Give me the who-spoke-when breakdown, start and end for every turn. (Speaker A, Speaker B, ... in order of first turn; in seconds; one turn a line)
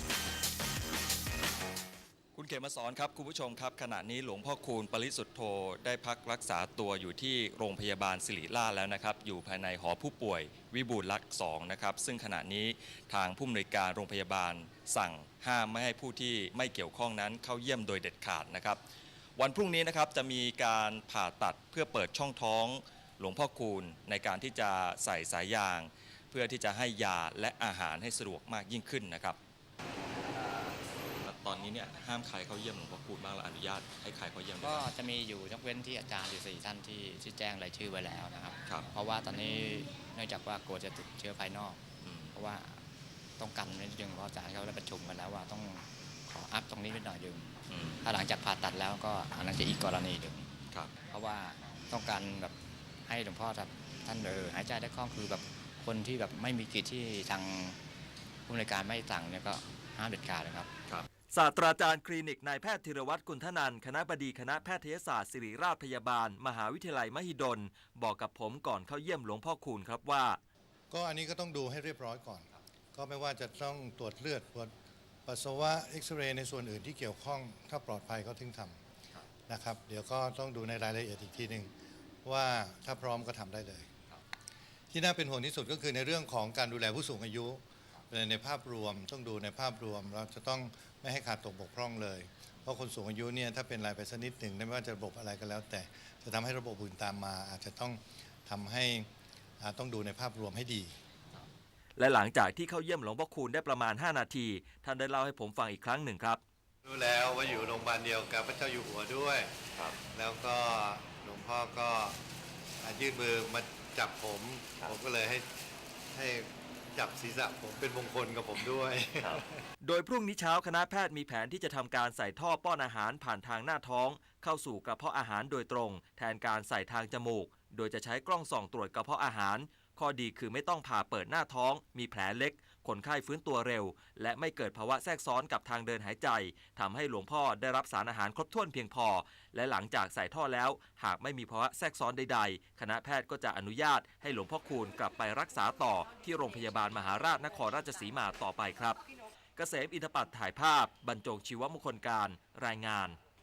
Speaker A: 2.3-18.8
Speaker A: 19.4-29.4
Speaker A: 31.2-34.9
Speaker B: 34.6-42.8
Speaker A: 42.0-42.4
Speaker B: 43.4-52.5
Speaker A: 47.7-48.0
Speaker B: 53.1-57.8
Speaker B: 58.5-60.7
Speaker C: 61.3-70.4
Speaker D: 70.9-74.7
Speaker D: 75.3-78.8
Speaker D: 79.5-81.7
Speaker D: 82.2-83.9
Speaker D: 84.9-99.1
Speaker D: 99.6-101.0
Speaker C: 102.0-106.4
Speaker D: 106.8-109.6
Speaker D: 110.1-112.2
Speaker D: 112.8-115.6
Speaker D: 116.1-119.6
Speaker C: 119.8-149.0
Speaker C: 149.6-153.2